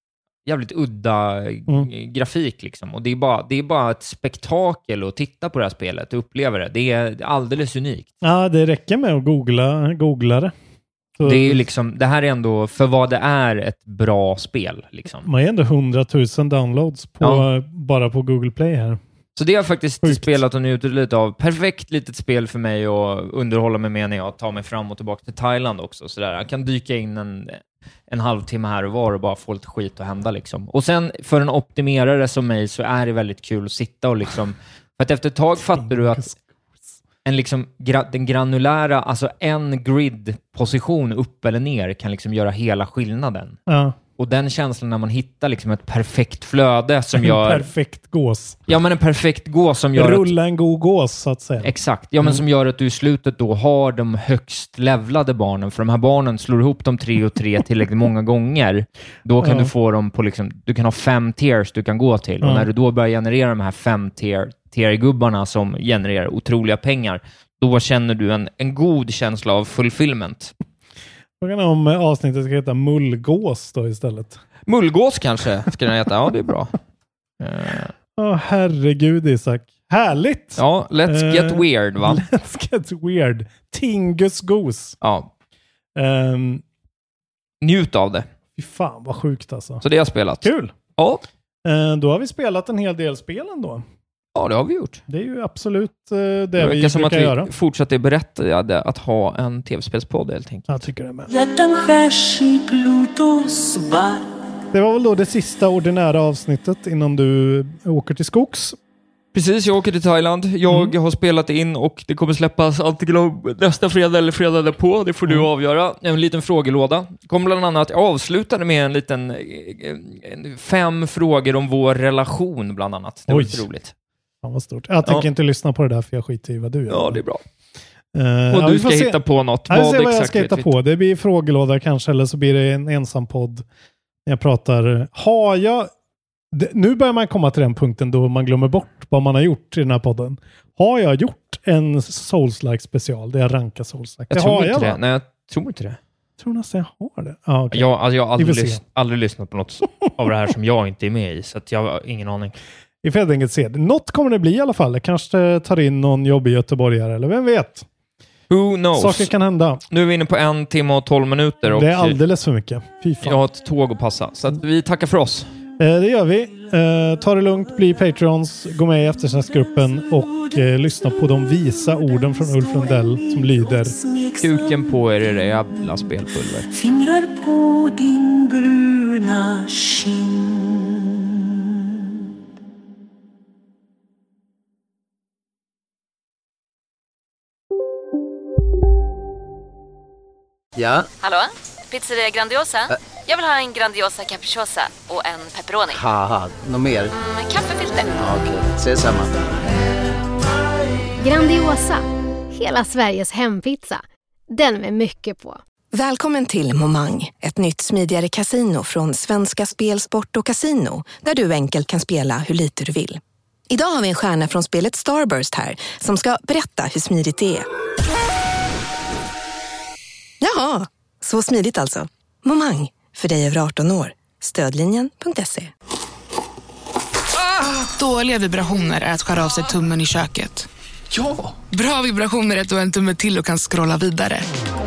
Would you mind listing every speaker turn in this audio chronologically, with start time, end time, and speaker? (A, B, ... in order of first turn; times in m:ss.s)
0:00.5-0:08.1 A
0:08.2-0:10.5 B
0:11.2-0:11.6 B
0:11.2-0:15.3 A
0:15.2-0:19.0 B
0:17.2-0:17.5 A
0:19.4-0:36.3 A
0:20.0-0:20.4 B
0:35.7-0:36.4 B
0:37.2-0:43.6 A
0:43.7-0:44.0 B
0:44.2-0:47.7 A
0:47.2-0:48.6 B
0:48.7-0:50.3 A
0:50.0-0:52.4 B
0:51.6-1:10.5 A
0:59.4-0:59.7 B
1:02.4-1:02.7 B
1:11.4-1:14.4 B
1:14.7-1:16.8 A
1:17.4-1:17.9 A
1:18.2-1:25.0 B
1:20.6-1:22.2 A
1:25.0-1:25.3 A
1:26.0-1:26.6 B
1:27.6-1:28.3 A
1:28.6-1:29.8 B
1:29.8-1:31.2 A
1:30.4-1:30.7 B
1:31.6-1:33.8 B
1:34.4-1:35.0 A
1:35.1-1:37.5 B
1:36.6-1:40.7 A
1:40.7-1:41.3 B
1:41.3-1:44.3 C
1:44.7-1:48.8 B
1:49.3-2:03.9 A
1:50.7-1:50.9 B
2:03.3-2:03.7 B
2:04.4-2:07.2 B
2:06.9-2:07.4 A
2:08.1-2:13.6 B
2:08.5-2:10.7 A
2:14.3-2:15.9 B
2:16.5-2:25.0 B
2:24.3-2:26.0 A
2:26.4-2:28.8 B
2:27.7-2:32.6 A
2:33.0-2:37.9 B
2:38.5-2:39.3 A
2:39.0-2:39.8 B
2:39.9-2:42.2 A
2:41.7-2:43.4 B
2:43.2-2:45.5 A
2:45.8-2:53.9 B
2:49.7-2:50.6 C
2:52.4-2:54.8 C
2:54.4-2:56.7 A
2:56.7-3:01.1 C
3:10.8-3:11.0 D
3:11.2-3:16.0 E
3:15.9-3:17.1 D
3:17.2-3:18.2 E
3:18.2-3:19.3 D
3:21.2-3:25.6 F
3:25.9-3:37.7 G
3:40.4-3:45.7 G
3:47.6-3:50.7 H
3:51.7-3:54.5 H